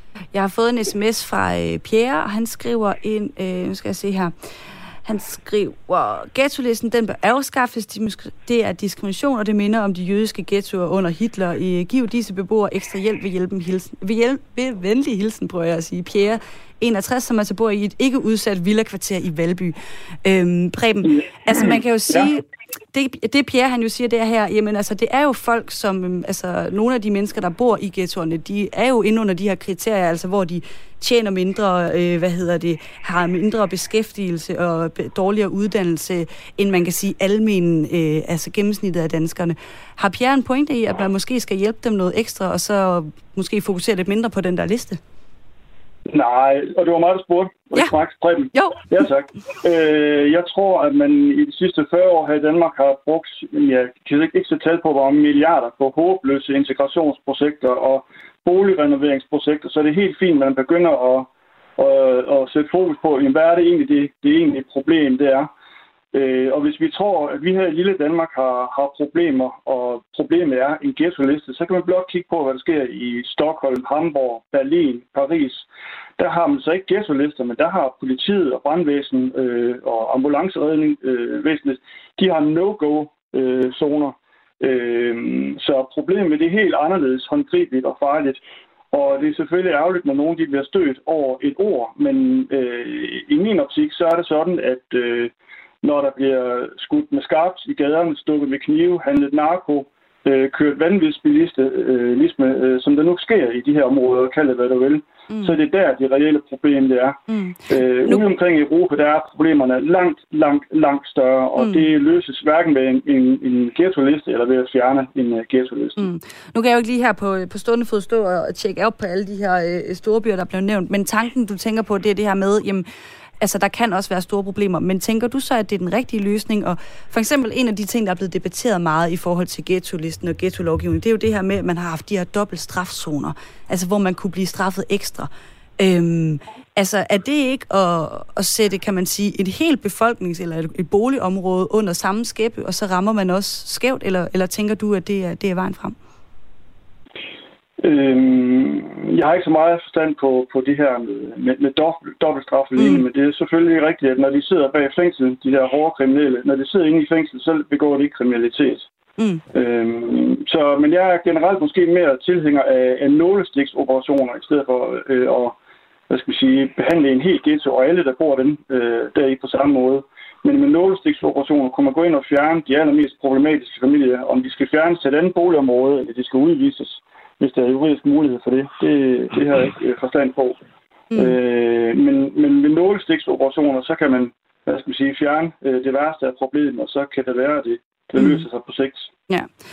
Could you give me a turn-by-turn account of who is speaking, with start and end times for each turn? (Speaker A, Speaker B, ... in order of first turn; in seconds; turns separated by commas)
Speaker A: 0.3-45.0, Speaker B: 21.1-22.3, Speaker B: 46.1-65.5, Speaker A: 48.5-48.8, Speaker B: 66.1-75.7, Speaker B: 76.2-95.3, Speaker B: 95.8-116.0, Speaker A: 107.3-108.2, Speaker A: 111.6-111.9, Speaker A: 116.0-122.8, Speaker A: 123.4-145.9, Speaker B: 147.8-158.9, Speaker A: 152.8-153.0, Speaker B: 159.5-165.6, Speaker B: 166.1-180.6, Speaker A: 181.1-181.4, Speaker B: 181.1-189.1, Speaker A: 188.2-188.4